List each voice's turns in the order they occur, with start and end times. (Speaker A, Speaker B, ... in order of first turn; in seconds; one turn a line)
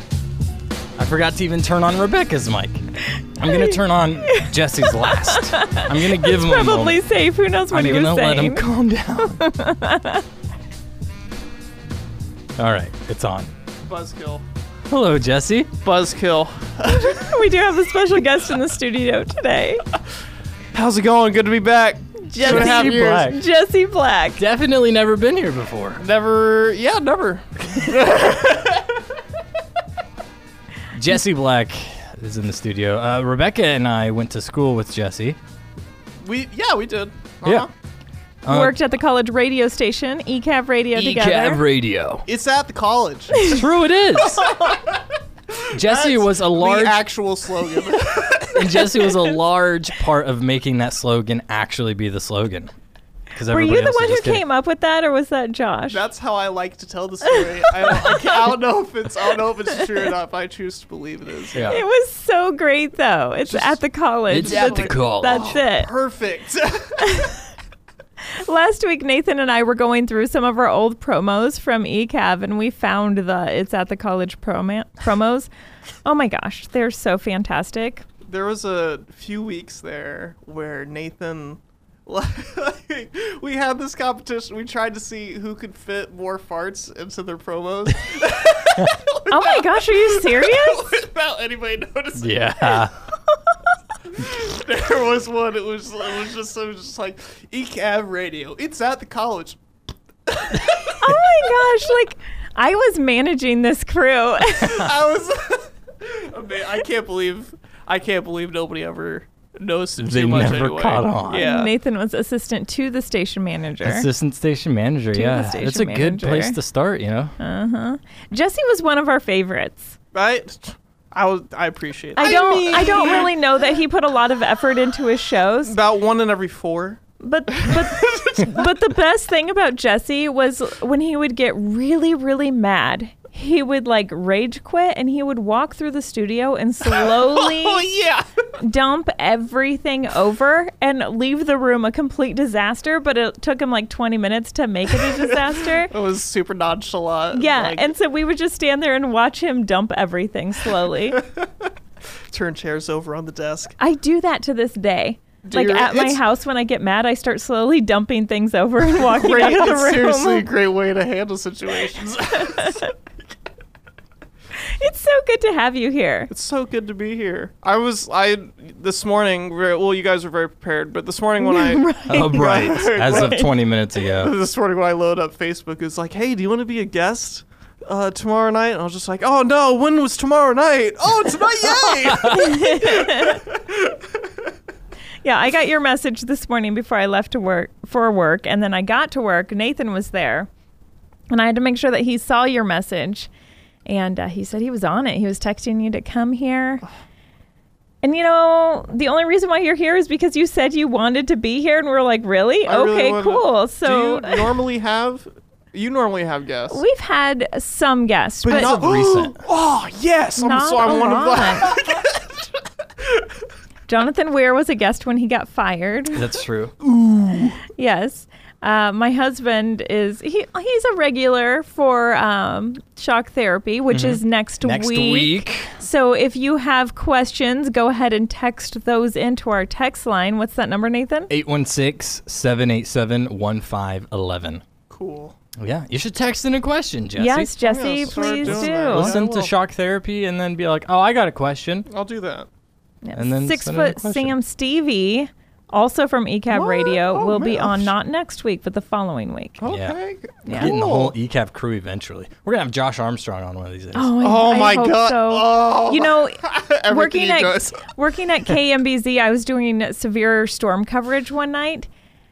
Speaker A: 1.0-7.0
Speaker B: 3.4-8.7
Speaker A: 7.7-9.4
Speaker B: 9.2-10.2
Speaker A: 12.6-13.5
Speaker C: 13.9-14.4
Speaker A: 14.9-15.8
Speaker C: 15.8-17.3
Speaker B: 16.9-19.8
Speaker C: 20.7-23.4
Speaker B: 22.2-24.4
Speaker A: 22.4-23.4
Speaker A: 24.4-26.0
Speaker C: 26.0-28.8
Speaker A: 30.9-35.4
Speaker C: 36.2-37.7
Speaker A: 38.5-38.8
Speaker B: 38.5-41.6
Speaker A: 41.0-42.2
Speaker C: 42.3-43.4
Speaker A: 43.3-44.5
Speaker C: 44.5-45.0
Speaker C: 45.6-49.0
Speaker A: 45.7-47.0
Speaker A: 48.5-52.7
Speaker A: 53.3-54.4
Speaker B: 53.5-56.0
Speaker C: 55.9-61.7
Speaker B: 57.9-58.2
Speaker A: 61.5-61.8
Speaker B: 61.6-65.9
Speaker C: 63.5-63.8
Speaker A: 64.3-65.6
Speaker C: 64.3-67.3
Speaker B: 67.0-67.4
Speaker B: 68.4-75.5
Speaker B: 76.0-78.1
Speaker C: 78.3-92.5
Speaker B: 89.3-90.8
Speaker A: 92.2-92.9
Speaker C: 94.2-99.6
Speaker C: 100.3-101.0
Speaker B: 100.9-104.9
Speaker C: 104.6-111.7
Speaker A: 110.0-111.5
Speaker B: 111.3-114.1
Speaker A: 113.8-117.3
Speaker B: 115.1-116.6
Speaker B: 117.4-120.0
Speaker C: 120.1-123.3
Speaker B: 122.2-125.8
Speaker C: 125.7-127.0
Speaker B: 127.2-137.9
Speaker C: 127.5-128.4
Speaker C: 136.8-138.5
Speaker B: 138.6-145.9
Speaker C: 145.0-147.9
Speaker B: 147.3-151.2
Speaker C: 152.3-153.8
Speaker B: 153.8-160.5
Speaker C: 155.4-156.2
Speaker C: 159.0-162.8
Speaker B: 162.4-162.9
Speaker B: 164.7-166.3
Speaker C: 166.3-173.5
Speaker B: 171.4-172.6
Speaker A: 172.1-174.3
Speaker B: 173.1-173.4
Speaker C: 174.1-183.9
Speaker A: 182.0-182.5
Speaker B: 182.2-183.4
Speaker B: 185.2-190.5
Speaker B: 191.3-193.3
Speaker B: 193.9-196.8
Speaker B: 198.0-204.4
Speaker C: 202.7-206.8
Speaker B: 206.7-208.7
Speaker A: 208.4-209.4
Speaker C: 208.4-212.2
Speaker B: 210.4-211.8
Speaker B: 213.9-216.3
Speaker A: 216.1-216.8
Speaker C: 216.8-217.6
Speaker B: 217.7-231.3
Speaker A: 223.9-225.8
Speaker A: 231.3-234.6
Speaker C: 234.9-235.4
Speaker A: 235.6-237.5
Speaker B: 237.2-239.1
Speaker C: 237.6-239.5
Speaker A: 238.2-241.9
Speaker C: 241.9-242.5
Speaker B: 243.0-249.6
Speaker A: 243.1-244.3
Speaker C: 246.5-247.9
Speaker C: 249.6-251.1
Speaker A: 249.7-250.0
Speaker A: 250.5-254.1
Speaker B: 253.9-261.9
Speaker C: 254.2-257.9